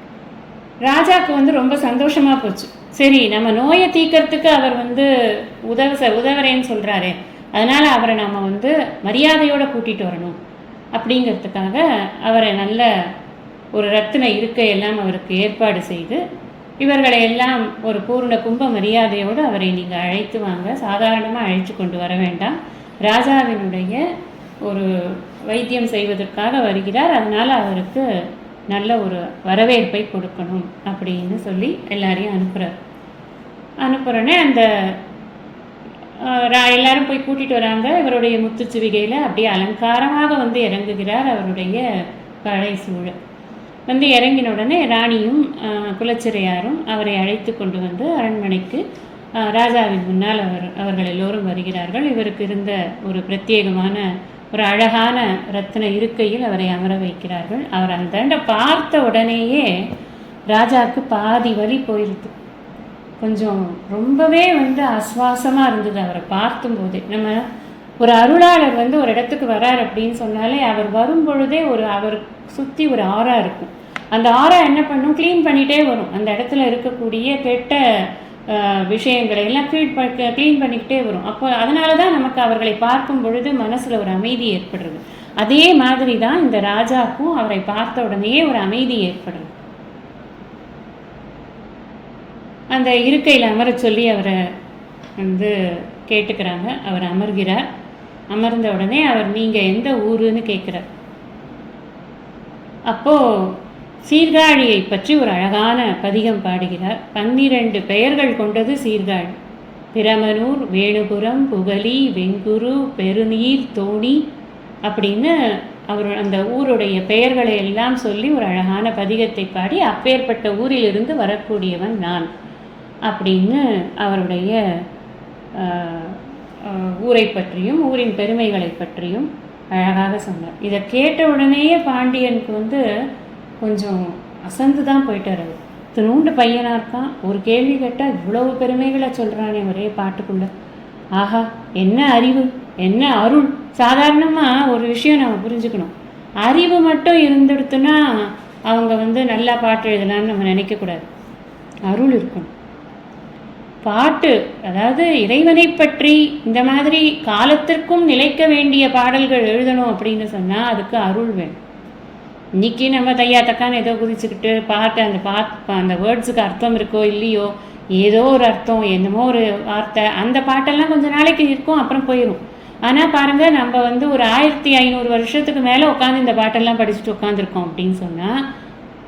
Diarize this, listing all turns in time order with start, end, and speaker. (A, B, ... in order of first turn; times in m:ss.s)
0:00.8-0:10.4 A
0:11.0-0:12.9 A
0:13.7-0:16.2 A
0:16.8-0:24.1 A
0:24.6-0:28.1 A
0:28.7-0:32.7 A
0:33.8-0:35.0 A
0:36.2-0:41.8 A
0:42.4-0:43.2 A
0:43.9-0:48.8 A
0:49.4-0:59.7 A
1:00.5-1:02.3 A
1:03.2-1:07.4 A
1:08.0-1:29.5 A
1:32.7-1:34.4 A
1:35.2-1:35.5 A
1:36.0-1:37.6 A
1:38.3-1:40.8 A
1:42.9-1:49.3 A
1:49.9-1:54.2 A
1:54.8-1:55.3 A
1:55.9-2:02.3 A
2:03.1-2:04.6 A
2:05.5-2:12.8 A
2:13.6-2:20.5 A
2:21.2-2:25.9 A
2:26.4-2:31.1 A
2:31.9-2:32.5 A
2:33.8-2:41.6 A
2:42.6-2:58.4 A